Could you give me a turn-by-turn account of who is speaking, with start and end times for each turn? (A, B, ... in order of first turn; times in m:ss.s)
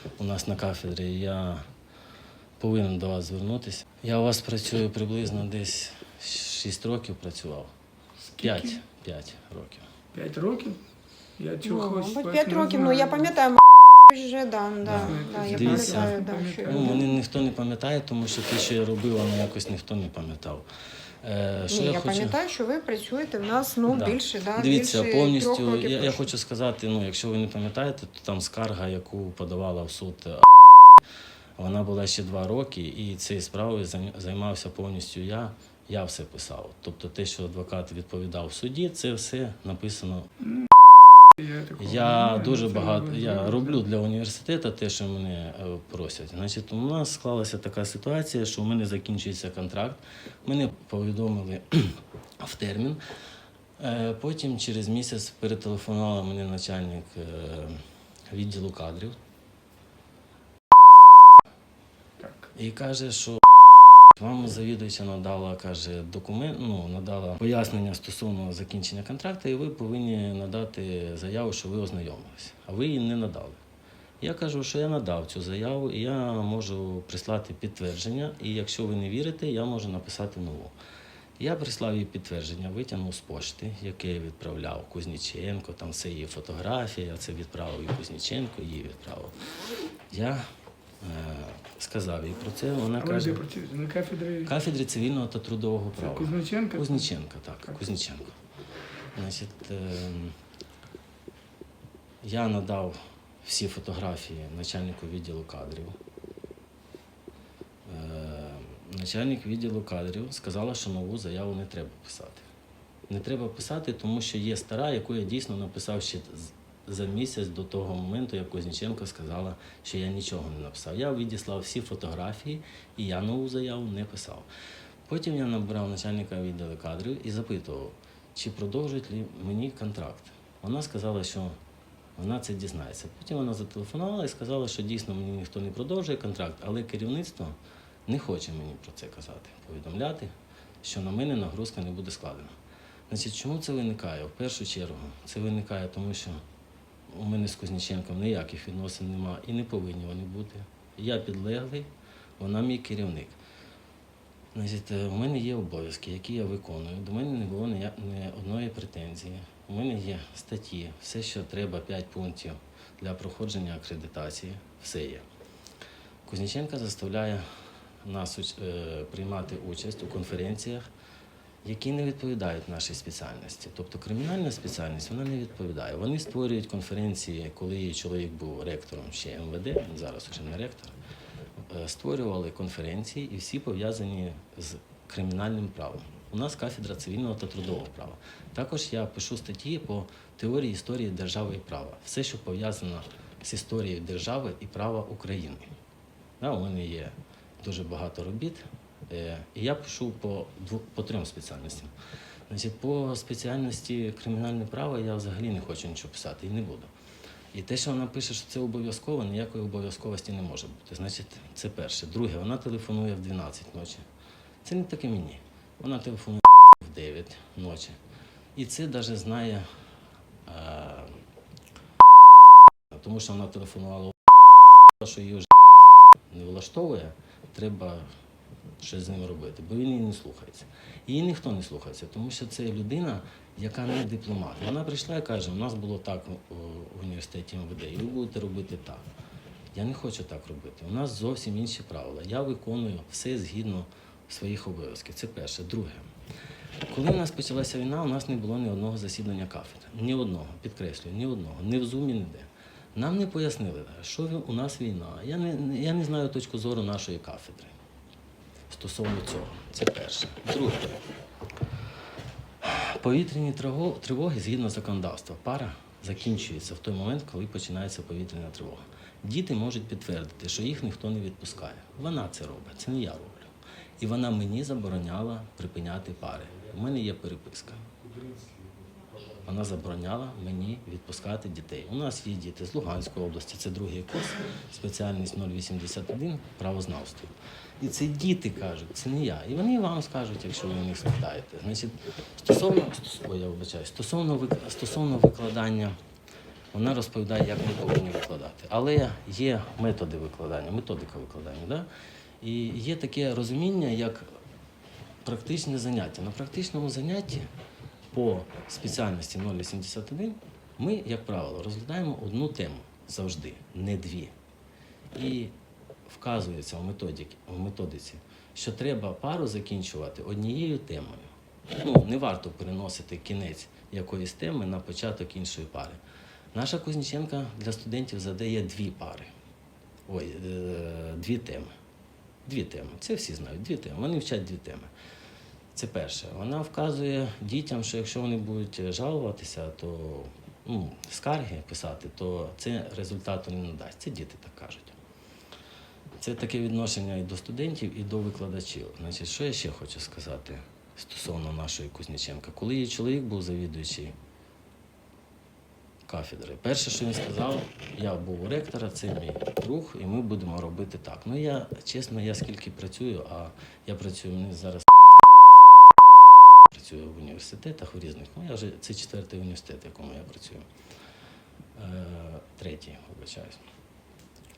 0:00.2-0:01.7 A
0:02.6-0:07.7 A
0:08.2-0:08.8 B
0:08.4-0:09.9 A
0:10.1-0:10.8 B
0:11.4-0:13.4 B
0:11.6-0:17.1 C
0:14.8-0:20.6 A
0:14.8-0:17.1 B
0:21.2-0:22.4 A
0:21.7-0:26.2 C
0:23.9-0:30.5 A
0:31.6-0:40.3 A
0:41.3-0:43.8 B
0:41.8-0:53.0 A
0:53.8-0:59.2 A
1:02.2-1:02.5 B
1:02.5-1:03.4 A
1:04.1-1:13.6 A
1:14.2-1:20.7 A
1:21.4-1:29.4 A
1:30.1-1:30.5 A
1:31.0-1:33.5 A
1:33.0-1:34.5 B
1:34.4-1:38.4 A
1:36.0-1:37.0 B
1:39.1-1:40.4 A
1:42.2-1:46.0 A
1:47.8-1:52.4 A
1:53.1-2:04.5 A
2:05.0-2:11.6 A
2:12.2-2:22.5 A
2:23.1-2:26.4 A
2:27.1-2:33.4 A
2:34.5-2:45.2 A
2:46.2-2:47.4 A
2:48.0-2:50.9 A
2:51.6-3:01.0 A
3:01.7-3:15.7 A
3:16.4-3:21.9 A
3:22.5-3:26.9 A
3:27.5-3:34.0 A
3:34.6-3:38.0 A
3:38.6-3:39.6 A
3:40.4-3:41.2 A
3:42.9-3:44.3 A
3:44.9-3:45.5 A
3:46.3-3:48.1 A
3:48.8-3:59.0 A
3:59.7-4:06.1 A
4:06.9-4:17.7 A
4:18.7-4:21.0 A
4:22.6-4:37.9 A
4:38.2-4:38.5 B
4:39.4-4:56.0 A
4:56.7-5:01.9 A
5:02.4-5:04.3 A
5:05.2-5:07.5 A
5:08.1-5:14.3 A
5:15.1-5:15.5 A
5:16.0-5:26.0 A
5:26.5-5:29.3 A
5:30.1-5:31.7 A
5:32.4-5:34.9 A
5:35.7-5:45.0 A
5:46.2-5:54.1 A
5:56.1-6:04.9 A
6:06.7-6:10.7 A
6:11.7-6:13.6 A